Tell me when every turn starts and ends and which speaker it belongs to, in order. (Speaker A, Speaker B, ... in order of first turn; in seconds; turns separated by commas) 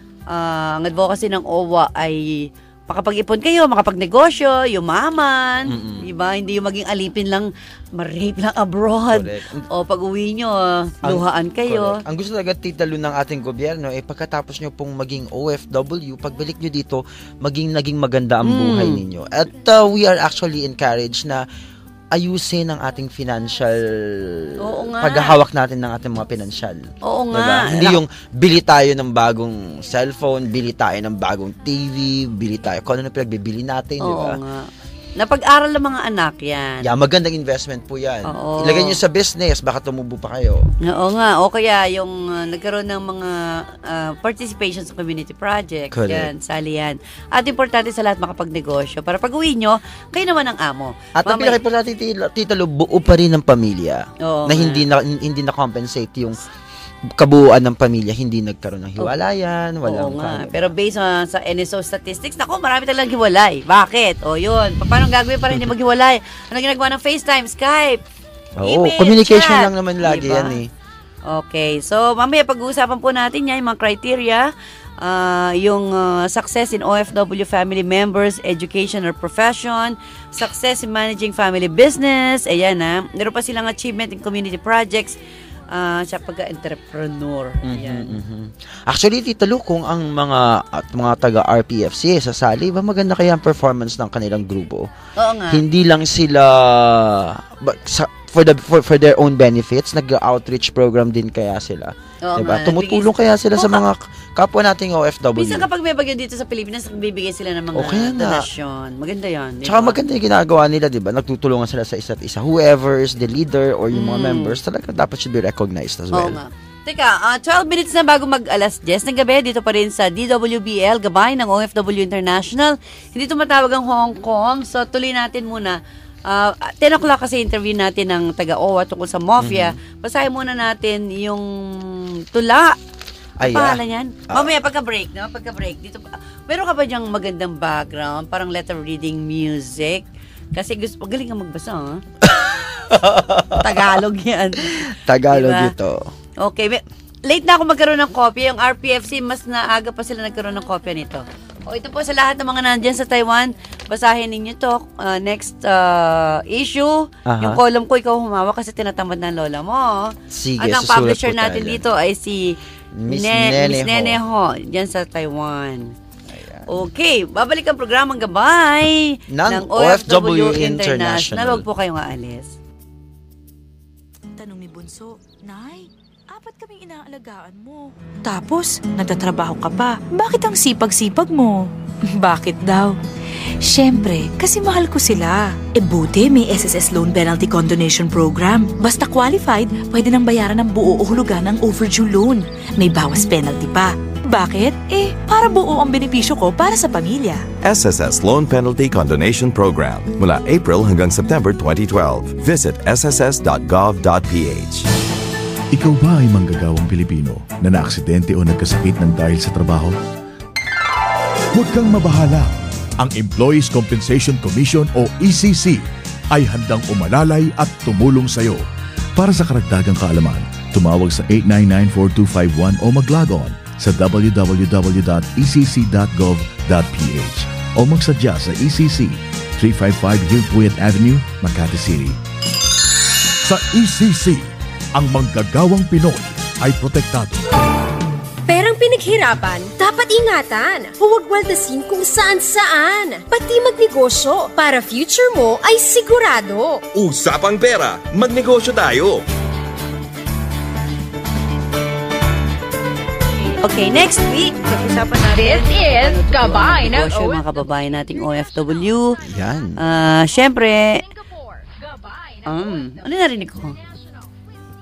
Speaker A: 0.3-12.0, Speaker B: 5.7-6.1, Speaker B: 9.1-9.7, Speaker B: 11.0-21.4, Speaker A: 18.4-19.0, Speaker B: 22.1-34.4, Speaker A: 24.6-25.4, Speaker A: 27.0-28.0, Speaker A: 34.0-36.9, Speaker B: 36.8-40.6, Speaker A: 38.3-39.0, Speaker A: 40.9-51.6, Speaker B: 45.9-46.3, Speaker B: 51.2-56.4, Speaker A: 54.2-54.9, Speaker B: 57.2-60.7, Speaker A: 59.9-68.0, Speaker B: 68.6-70.7, Speaker A: 68.6-70.6, Speaker A: 71.3-74.5, Speaker A: 75.0-85.2, Speaker A: 85.7-88.2, Speaker B: 87.6-94.9, Speaker A: 95.2-95.6, Speaker B: 95.5-105.7, Speaker A: 102.2-103.8, Speaker A: 105.4-110.0, Speaker B: 107.7-108.5, Speaker B: 109.6-116.4, Speaker A: 113.9-114.6, Speaker A: 116.1-132.8, Speaker B: 129.4-129.8, Speaker B: 133.4-134.5, Speaker A: 133.4-142.0, Speaker B: 142.2-143.8, Speaker A: 143.5-145.7, Speaker B: 144.7-146.1, Speaker A: 146.4-165.9, Speaker B: 157.3-157.6, Speaker B: 160.3-161.8, Speaker B: 163.0-164.2, Speaker B: 166.3-166.7, Speaker A: 166.7-172.5, Speaker B: 169.3-171.7, Speaker C: 174.4-182.9, Speaker C: 183.7-197.4, Speaker D: 197.6-204.9, Speaker E: 205.7-209.9, Speaker E: 211.5-215.8, Speaker E: 216.3-218.6, Speaker E: 219.2-232.2, Speaker E: 233.4-237.4, Speaker F: 238.5-246.8, Speaker G: 246.9-249.2, Speaker A: 253.6-259.2, Speaker H: 255.3-257.4, Speaker B: 259.2-259.8, Speaker A: 259.8-261.0, Speaker H: 260.8-264.3, Speaker A: 262.5-263.8